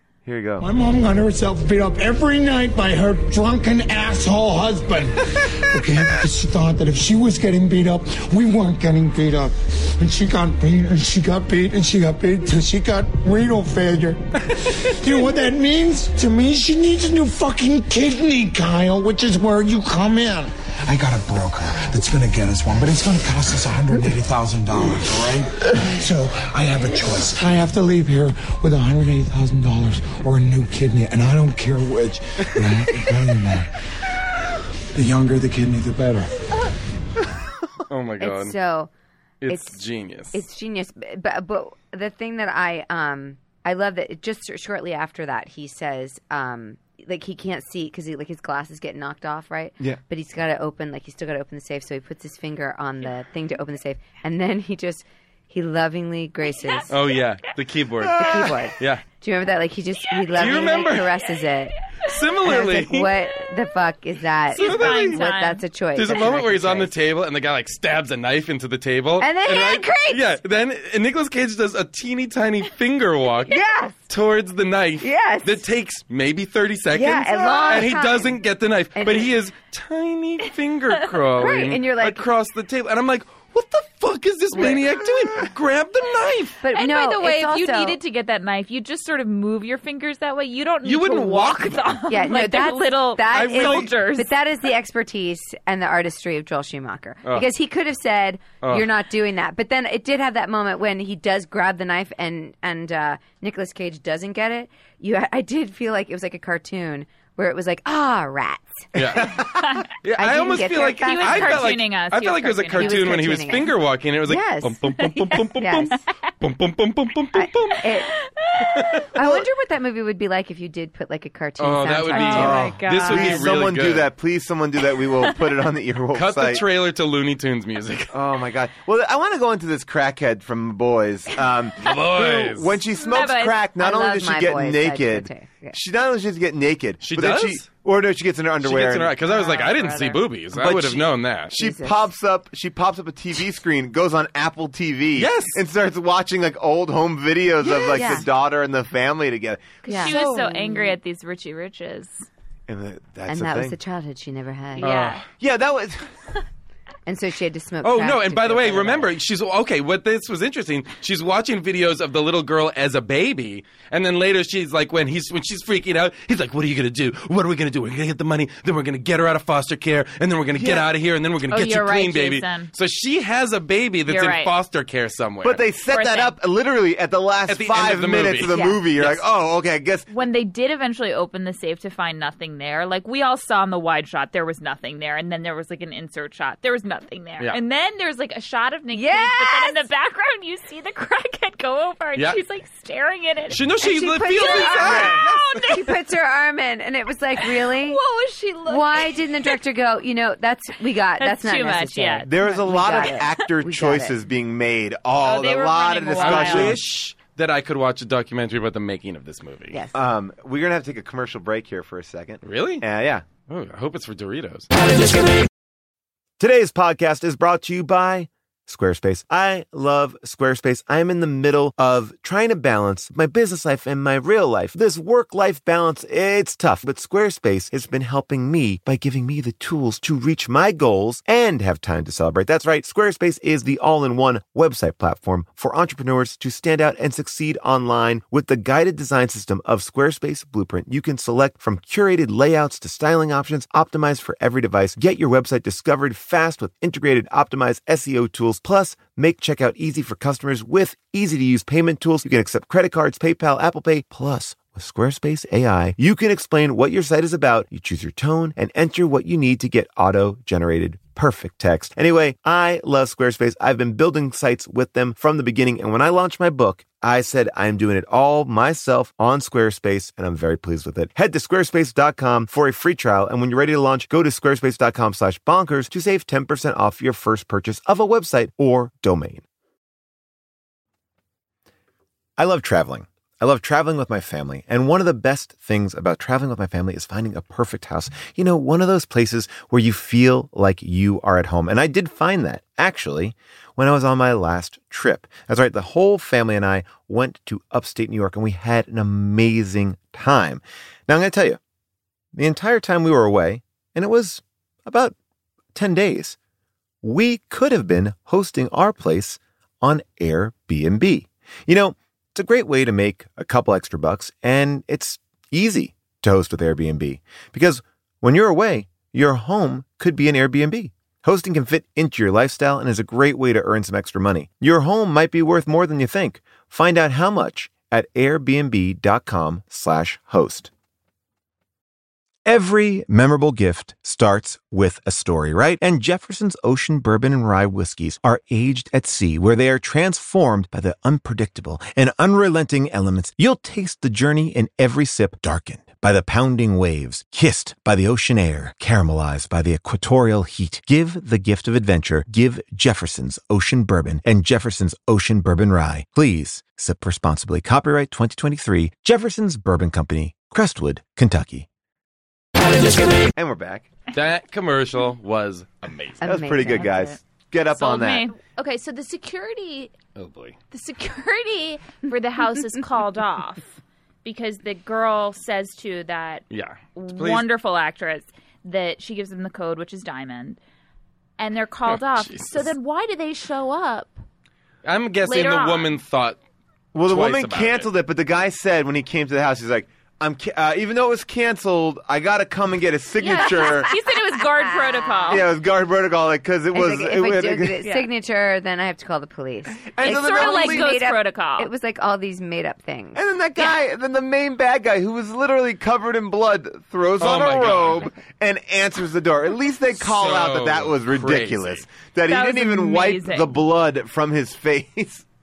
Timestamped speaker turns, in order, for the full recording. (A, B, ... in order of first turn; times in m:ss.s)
0:00.2-0:00.7 A
0:00.6-0:33.7 B
0:34.9-0:36.3 B
0:37.9-0:38.6 C
0:38.2-0:38.9 D
0:39.4-0:40.4 C
0:39.5-0:39.8 D
0:40.3-0:56.9 D
0:56.9-0:59.0 C
0:58.0-0:58.6 A
0:58.2-1:01.9 D
1:00.3-1:01.1 C
1:00.4-1:01.0 E
1:02.0-1:03.1 C
1:02.4-1:06.9 D
1:04.5-1:05.6 E
1:04.6-1:05.3 C
1:05.9-1:26.6 C
1:09.2-1:10.4 D
1:13.4-1:14.0 D
1:15.0-1:15.6 D
1:16.9-1:18.4 D
1:19.0-1:19.3 D
1:21.3-1:22.2 D
1:24.5-1:24.8 D
1:26.6-1:28.0 D
1:26.7-1:34.3 E
1:30.8-1:32.0 C
1:32.1-1:49.2 D
1:33.3-1:33.9 C
1:38.6-1:38.9 C
1:48.9-1:57.8 C
1:49.0-1:49.5 A
1:49.6-1:49.8 E
1:50.2-1:51.8 D
1:51.0-1:53.2 E
1:52.8-1:53.7 D
1:54.2-1:56.0 D
1:57.3-1:58.1 D
1:58.1-1:58.7 E
1:58.7-1:59.4 C
1:59.0-2:02.6 D
2:01.6-2:04.1 C
2:02.1-2:03.4 E
2:02.3-2:06.6 A
2:06.1-2:08.1 C
2:08.1-2:19.2 A
2:11.8-2:12.8 C
2:13.0-2:13.6 E
2:13.8-2:15.8 D
2:17.0-2:17.6 C
2:18.6-2:21.6 C
2:19.3-2:20.2 E
2:20.5-2:29.8 A
2:21.5-2:22.0 D
2:25.2-2:25.6 C
2:27.7-2:28.2 D
2:29.8-2:32.3 E
2:29.8-2:31.0 D
2:30.1-2:30.3 C
2:32.7-2:33.8 A
2:33.3-2:34.9 D
2:34.8-2:35.2 C
2:34.8-2:35.2 E
2:35.4-2:36.0 A
2:37.0-2:39.1 D
2:37.8-2:55.6 C
2:50.5-2:50.9 A
2:51.5-2:52.7 E
2:54.1-2:54.5 E
2:55.4-3:00.1 A
2:55.9-2:56.3 E
2:57.5-2:59.2 C
3:00.1-3:13.6 E
3:08.9-3:09.8 D
3:13.5-3:15.2 C
3:13.8-3:18.0 D
3:14.3-3:15.9 E
3:17.4-3:19.2 E
3:18.6-3:24.2 D
3:21.2-3:22.8 E
3:22.2-3:26.8 A
3:25.2-3:26.8 E
3:26.2-3:29.8 C
3:29.7-3:30.0 D
3:29.9-3:33.2 A
3:32.4-3:32.8 C
3:33.5-3:34.7 C
3:36.4-4:39.4 A
4:42.4-5:01.6 A
5:02.3-5:05.1 A
5:05.7-5:06.4 A
5:07.0-5:30.7 A
5:32.4-6:01.7 A
6:03.3-6:03.9 A
6:04.1-6:06.2 C
6:06.2-6:07.0 D
6:06.2-6:08.3 A
6:06.7-6:07.2 E
6:07.7-6:09.9 E
6:10.2-6:10.6 C
6:10.7-6:20.6 E
6:16.5-6:17.4 C
6:21.4-6:24.2 E
6:21.9-6:22.7 C
6:24.8-6:26.4 C
6:25.2-6:25.9 E
6:26.9-6:33.9 A
6:27.1-6:27.9 C
6:33.2-6:35.4 E
6:33.4-6:35.4 D
6:35.3-6:37.8 A
6:36.7-6:43.2 D
6:37.8-6:38.1 E
6:39.8-6:40.9 A
6:40.0-6:41.7 E
6:43.1-6:55.2 A
6:47.2-6:48.1 C
6:50.0-6:51.8 C
6:52.3-6:53.5 E